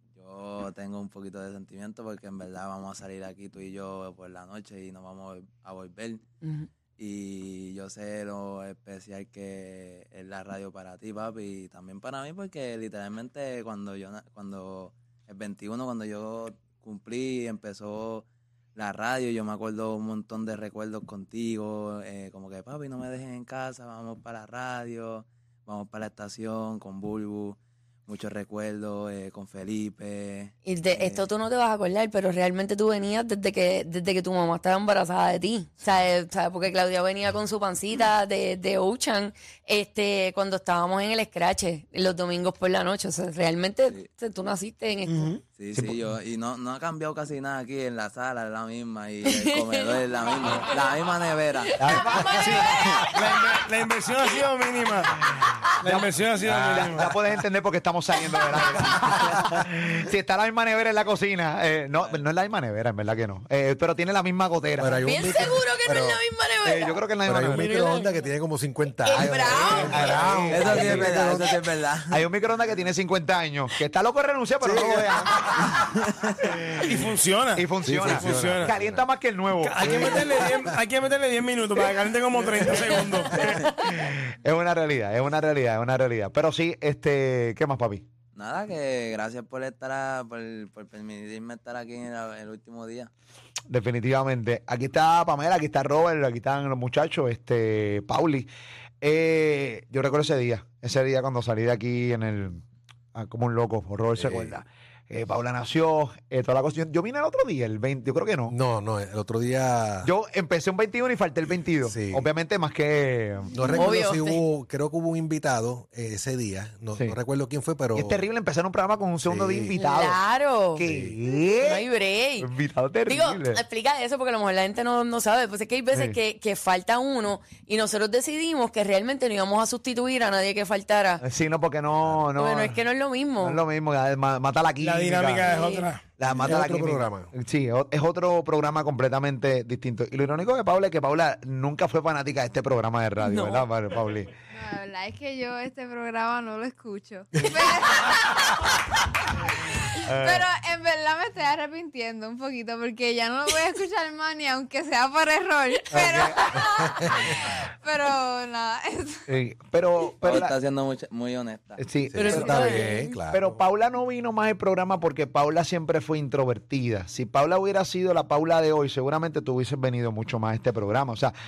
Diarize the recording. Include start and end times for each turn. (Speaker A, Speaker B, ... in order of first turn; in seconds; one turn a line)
Speaker A: 0.2-6.2
Speaker B: 6.4-6.7
Speaker A: 7.0-31.3
Speaker B: 30.7-45.3
Speaker C: 45.1-45.4
Speaker A: 45.6-51.8
Speaker B: 49.3-50.8
Speaker B: 51.7-53.4
Speaker D: 51.8-53.0
Speaker A: 52.7-53.0
Speaker C: 53.1-55.3
Speaker C: 55.8-57.1
Speaker D: 55.8-65.0
Speaker E: 56.5-56.9
Speaker E: 64.8-66.2
Speaker B: 65.0-67.0
Speaker D: 66.6-67.7
Speaker E: 67.3-71.6
Speaker B: 67.5-68.1
Speaker B: 69.0-70.2
Speaker D: 69.2-71.3
Speaker A: 70.5-72.2
Speaker D: 72.1-75.8
Speaker E: 74.6-75.5
Speaker C: 76.8-78.7
Speaker D: 77.5-80.5
Speaker E: 77.8-79.0
Speaker C: 79.6-83.7
Speaker E: 79.8-80.7
Speaker D: 83.7-88.1
Speaker A: 88.3-93.1
Speaker D: 93.7-98.5
Speaker D: 99.0-102.6
Speaker D: 103.1-108.5
Speaker E: 104.2-104.5
Speaker E: 108.5-110.1
Speaker D: 110.0-113.8
Speaker E: 111.9-112.3
Speaker E: 113.5-118.2
Speaker B: 113.7-114.4
Speaker D: 117.9-120.2
Speaker E: 119.2-119.7
Speaker B: 119.8-120.8
Speaker D: 120.8-121.9
Speaker E: 120.8-121.1
Speaker B: 121.6-122.5
Speaker D: 122.4-123.6
Speaker B: 123.1-131.2
Speaker D: 125.9-126.2
Speaker D: 131.2-132.8
Speaker B: 132.4-133.6
Speaker D: 133.4-135.5
Speaker C: 134.8-136.1
Speaker B: 135.4-135.9
Speaker D: 136.2-144.3
Speaker E: 136.3-137.3
Speaker B: 143.2-143.7
Speaker F: 144.5-159.2
Speaker D: 150.1-150.5
Speaker D: 155.9-156.4
Speaker E: 156.0-157.3
Speaker D: 159.3-160.5
Speaker A: 160.2-161.8
Speaker D: 161.8-171.3
Speaker E: 162.1-163.6
Speaker B: 162.2-163.2